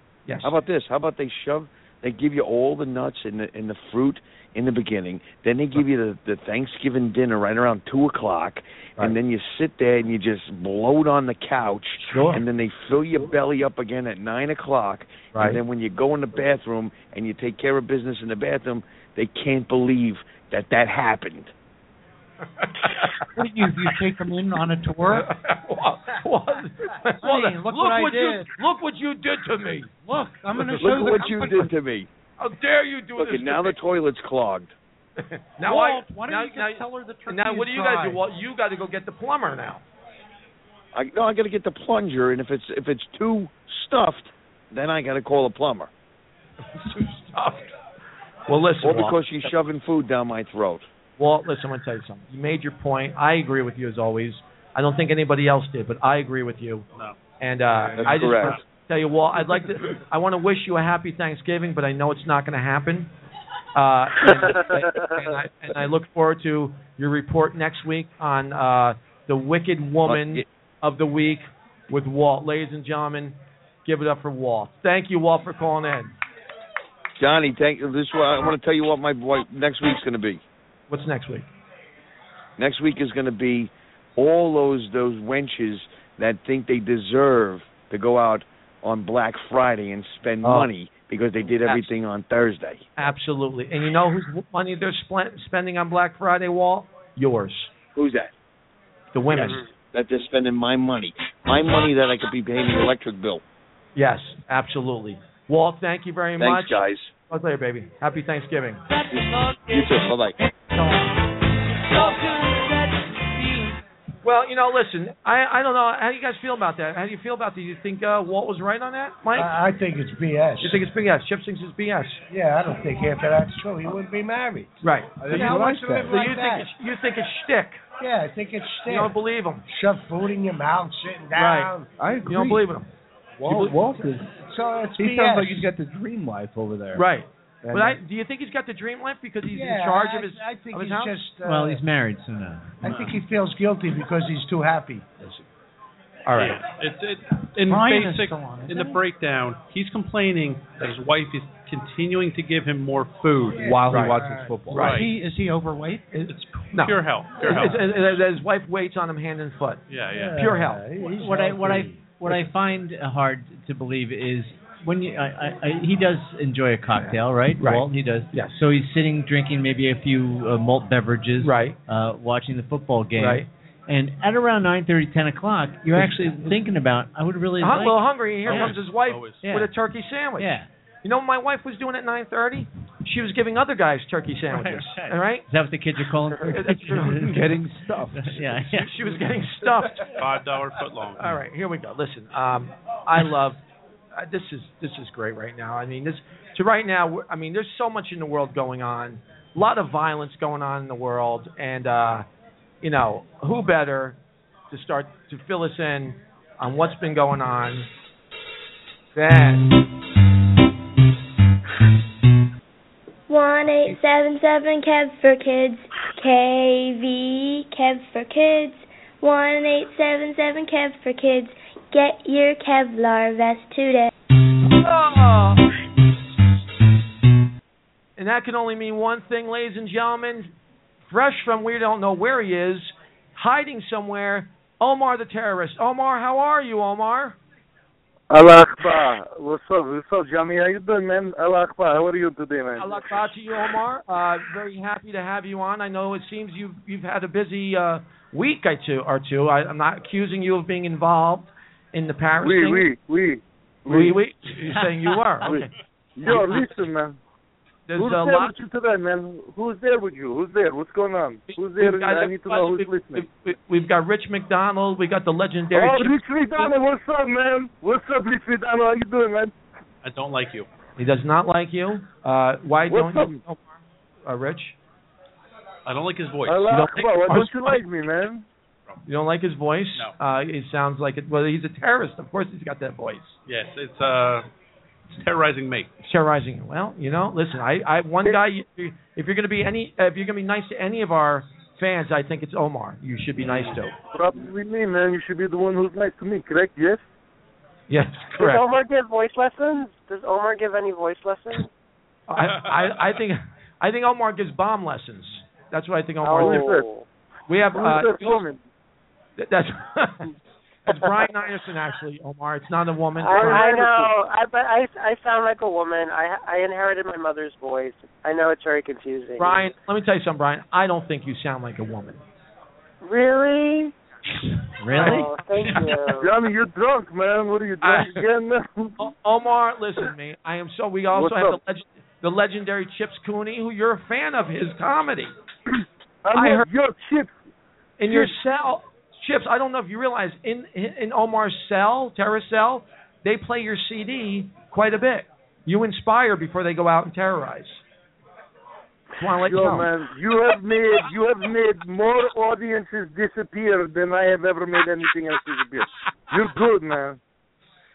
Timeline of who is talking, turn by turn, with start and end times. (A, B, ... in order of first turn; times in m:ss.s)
0:00.3-0:00.5 A
0:00.4-0:21.5 B
0:12.1-0:12.4 A
0:23.3-0:25.2 C
0:25.1-0:29.9 A
0:27.2-0:28.5 C
0:30.0-0:31.7 C
0:30.6-0:31.3 A
0:30.8-0:32.1 B
0:32.4-0:33.8 A
0:33.2-0:34.7 B
0:35.3-0:39.8 A
0:35.6-0:38.2 C
0:40.9-0:45.9 B
0:46.8-0:47.7 A
0:48.5-0:49.2 A
0:48.8-0:50.8 B
0:51.2-0:56.8 A
0:57.4-1:03.1 A
0:57.7-0:58.6 D
0:58.0-0:58.6 B
1:03.7-1:16.1 A
1:04.2-1:05.3 E
1:10.0-1:10.4 B
1:17.2-1:20.4 B
1:20.9-1:21.5 A
1:22.6-1:32.8 B
1:33.0-1:37.8 A
1:37.9-1:38.3 B
1:39.1-1:39.6 A
1:39.3-1:43.4 B
1:39.3-1:39.7 E
1:44.0-1:48.8 A
1:46.4-1:47.1 B
1:49.1-1:50.4 B
1:50.7-1:51.1 C
1:52.0-1:52.9 C
1:54.2-1:59.5 A
1:59.3-2:00.8 F
2:00.6-2:02.2 A
2:02.3-2:06.7 F
2:04.8-2:07.8 A
2:05.2-2:06.4 G
2:08.0-2:09.2 F
2:08.9-2:09.6 A
2:09.7-2:12.0 F
2:11.3-2:11.7 A
2:12.0-2:12.7 G
2:12.3-2:12.9 A
2:13.4-2:14.3 G
2:13.5-2:15.7 F
2:15.0-2:17.1 G
2:16.9-2:21.2 A
2:17.6-2:18.0 G
2:19.4-2:21.8 F
2:21.4-2:22.8 H
2:22.8-2:25.1 F
2:22.8-2:23.2 D
2:26.2-2:26.6 A
2:26.4-2:33.7 D
2:27.6-2:29.0 C
2:33.5-2:34.6 F
2:33.6-2:35.0 G
2:33.9-2:34.2 A
2:34.7-2:35.0 A
2:34.7-2:35.1 D
2:34.8-2:36.1 C
2:36.1-2:39.8 A
2:36.3-2:38.0 D
2:39.9-2:40.4 D
2:40.1-2:42.4 F
2:40.4-2:40.8 A
2:41.2-2:58.8 H
2:47.0-2:48.5 A
2:51.4-2:51.8 A
2:53.2-2:53.4 A
2:55.9-2:56.5 A
2:57.6-3:00.5 A
2:58.4-2:59.4 D
2:59.4-2:59.7 H
3:00.4-3:00.7 H
3:01.0-3:05.4 A
3:04.5-3:07.5 H
3:06.5-3:07.3 A
3:06.9-3:08.4 G
3:08.1-3:08.9 H
3:08.6-3:10.2 A
3:10.2-3:11.4 D
3:11.2-3:13.6 A
3:14.1-3:22.2 A
3:22.8-3:24.2 A
3:24.7-3:27.9 A
3:29.1-3:29.7 A
3:33.3-3:44.1 I
3:44.7-3:45.6 A
3:48.2-3:50.5 A
3:51.1-3:57.4 A
3:58.3-4:03.0 J
4:02.8-4:12.9 A
4:12.4-4:14.2 J
4:13.9-4:15.7 A
4:15.4-4:17.2 J
4:16.2-4:16.9 A
4:17.9-4:18.5 A
4:18.0-4:23.3 J
4:21.5-4:26.7 A
4:25.7-4:29.5 J
4:30.0-4:30.7 D
4:31.0-4:33.7 A
4:32.9-4:33.4 J
4:34.2-4:34.8 A
4:35.8-4:36.8 D
4:36.4-4:38.4 J
4:36.7-4:37.8 A
4:39.0-4:43.3 A
4:43.5-4:44.5 D
4:45.1-4:45.9 D
4:46.0-4:54.0 A
4:54.1-4:57.0 J
4:57.9-4:58.6 A
4:58.3-5:01.7 E
5:02.3-5:06.8 A
5:06.2-5:07.0 E
5:06.4-5:06.8 J
5:07.5-5:08.4 A
5:07.7-5:08.6 J
5:09.4-5:10.3 A
5:10.9-5:14.1 A
5:13.2-5:19.6 E
5:13.4-5:13.8 J
5:19.4-5:22.2 A
5:23.0-5:23.9 E
5:24.8-5:25.8 H
5:24.9-5:26.3 E
5:24.9-5:25.9 A
5:26.1-5:29.1 J
5:27.8-5:28.2 A
5:29.0-5:35.3 A
5:31.1-5:31.6 J
5:36.2-5:37.3 J
5:36.3-5:36.6 A
5:38.0-5:47.8 A
5:38.0-5:38.3 J
5:49.2-5:49.9 A
5:49.4-5:57.2 J